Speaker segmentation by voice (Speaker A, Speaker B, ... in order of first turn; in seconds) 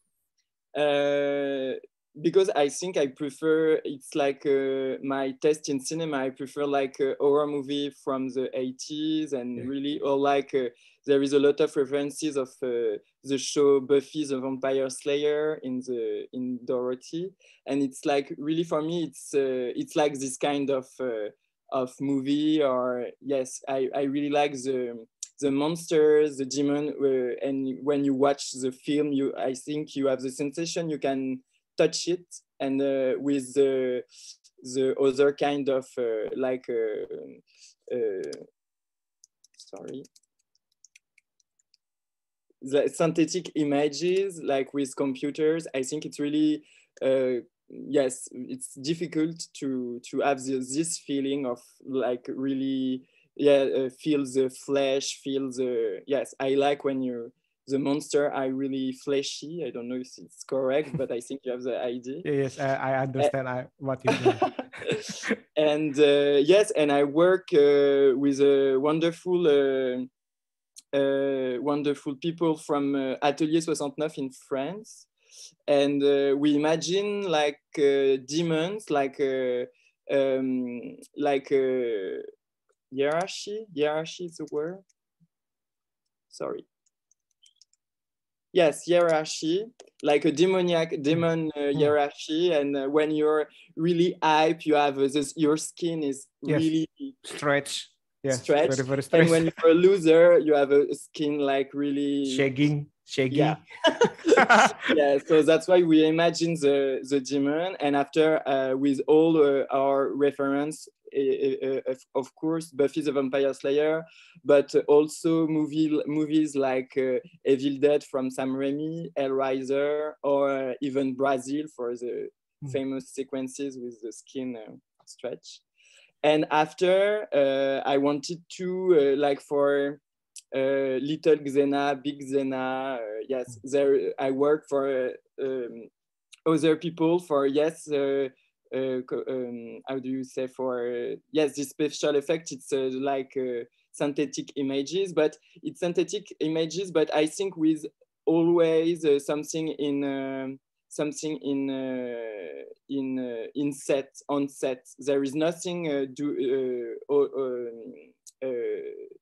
Speaker A: 0.7-34.0, 34.6-38.4, 39.6-40.0, 42.6-62.2, 64.1-70.1, 70.9-75.1, 75.7-82.2, 82.9-84.8, 86.3-86.7, 88.5-97.2, 98.3-102.4, 103.3-125.6, 126.2-130.0, 130.5-135.9, 136.4-159.1
Speaker B: 62.2-64.6, 97.2-99.5, 102.3-103.6, 104.3-104.9